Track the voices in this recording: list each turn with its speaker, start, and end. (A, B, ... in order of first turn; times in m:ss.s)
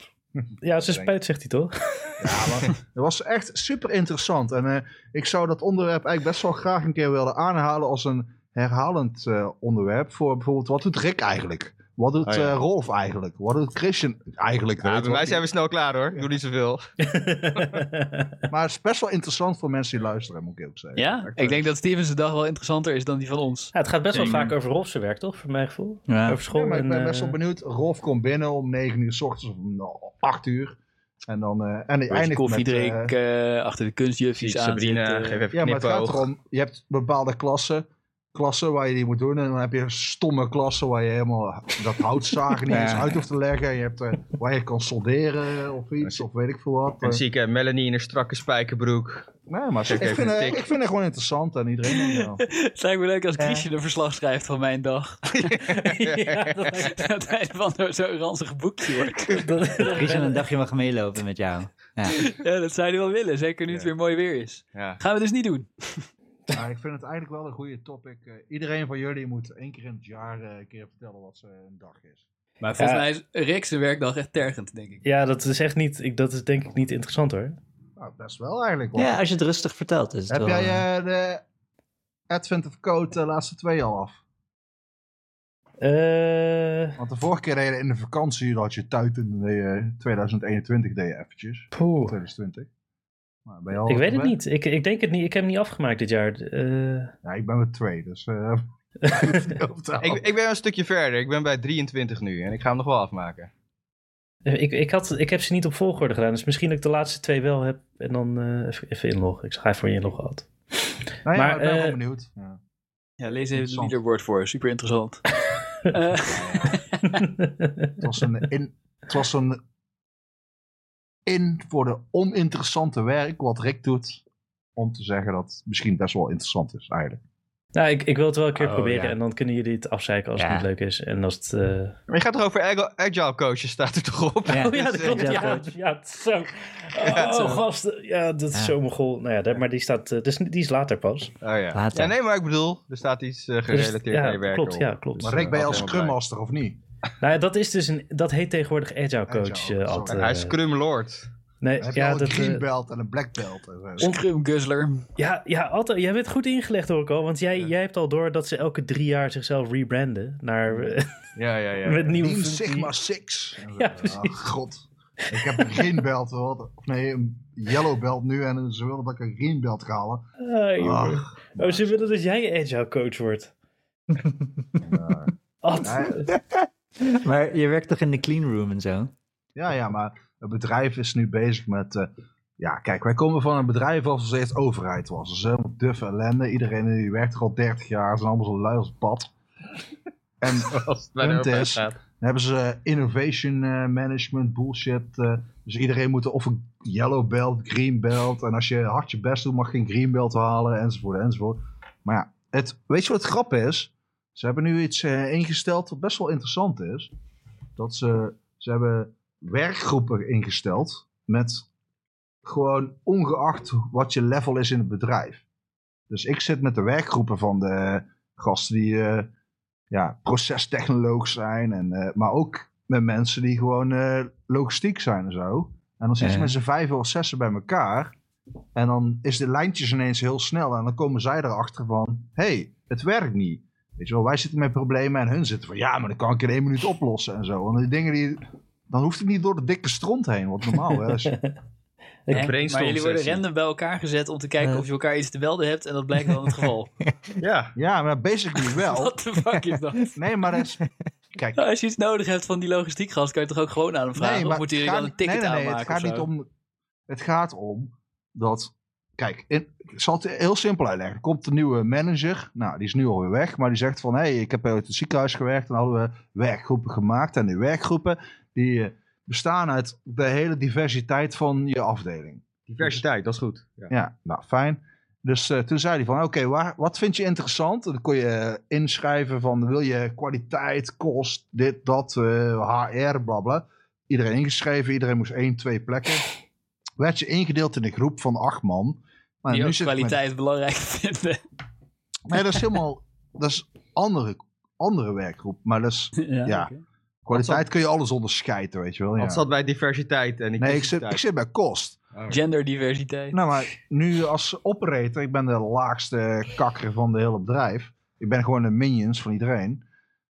0:00.6-0:02.2 A
0:02.2-0:15.4 B
0:12.2-0:12.6 C
0:14.8-0:16.9 C
0:17.0-0:18.4 A
0:18.5-0:21.3 B
0:21.0-0:24.4 D
0:23.7-0:27.4 A
0:26.1-0:26.4 E
0:26.5-0:33.1 B
0:32.1-0:35.4 D
0:34.4-0:36.3 C
0:35.5-0:47.2 B
0:42.7-0:43.2 E
0:47.0-0:50.6 C
0:49.5-0:52.4 B
0:51.9-0:55.7 D
0:55.3-0:56.9 C
0:55.7-0:57.0 A
0:56.8-0:59.5 D
0:59.3-1:00.4 A
0:59.9-1:02.3 E
1:02.1-1:06.1 D
1:04.7-1:05.0 C
1:06.5-1:12.2 B
1:12.6-1:15.0 D
1:12.8-1:13.1 A
1:15.0-1:17.6 A
1:18.0-1:19.2 B
1:19.0-1:20.8 E
1:20.3-1:21.4 B
1:22.3-1:24.2 B
1:25.8-1:27.0 A
1:27.0-1:32.7 B
1:31.7-1:32.2 A
1:33.5-1:34.4 B
1:33.8-1:37.1 A
1:37.2-1:40.2 B
1:39.0-1:39.4 A
1:40.0-1:43.5 C
1:44.4-1:50.5 A
1:51.2-1:52.6 B
1:51.4-1:52.0 A
1:53.2-1:55.3 D
1:53.5-1:54.0 B
1:55.8-1:57.0 D
1:56.3-1:56.8 B
1:57.1-1:58.0 A
1:58.0-1:59.6 B
2:01.3-2:04.2 B
2:04.8-2:07.2 B
2:07.8-2:12.0 A
2:08.6-2:09.2 E
2:10.4-2:10.7 E
2:12.1-2:15.6 C
2:14.5-2:15.7 E
2:14.5-2:21.3 A
2:17.0-2:17.6 C
2:21.4-2:26.2 C
2:21.7-2:22.1 E
2:23.7-2:25.6 A
2:25.2-2:26.8 B
2:27.2-2:30.6 A
2:29.3-2:30.3 B
2:30.1-2:31.3 C
2:31.6-2:32.6 A
2:31.8-2:34.1 B
2:34.0-2:35.1 D
2:35.2-2:41.2 A
2:41.4-2:42.1 C
2:41.8-2:42.9 A
2:42.1-2:50.3 B
2:43.8-2:44.4 A
2:45.4-2:45.8 A
2:50.4-2:53.5 A
2:50.8-2:51.9 B
2:54.2-2:54.4 E
2:54.8-2:56.3 B
2:55.6-2:56.3 A
2:56.3-2:59.1 E
2:59.6-3:09.3 B
3:10.4-3:27.1 B
3:10.6-3:12.0 C
3:27.8-3:31.7 B
3:32.4-3:35.4 B
3:36.1-3:39.3 B
3:39.9-3:48.2 B
3:46.2-3:46.5 E
3:48.8-4:01.4 B
4:02.3-4:03.4 C
4:02.3-4:06.9 D
4:07.4-4:07.8 C
4:07.8-4:09.2 B
4:08.6-4:10.2 D
4:10.0-4:11.6 B
4:11.6-4:16.3 D
4:14.2-4:16.5 B
4:17.1-4:33.0 B
4:32.7-4:33.9 C
4:33.9-4:46.3 B
4:47.0-4:50.2 B
4:49.5-4:51.4 D
4:52.3-4:56.7 B
4:56.2-4:56.8 D
4:57.3-4:59.4 B
4:57.3-4:57.6 C
4:59.2-5:01.2 C
5:00.6-5:02.0 B
5:02.1-5:02.4 C
5:02.3-5:03.4 D
5:03.3-5:09.8 B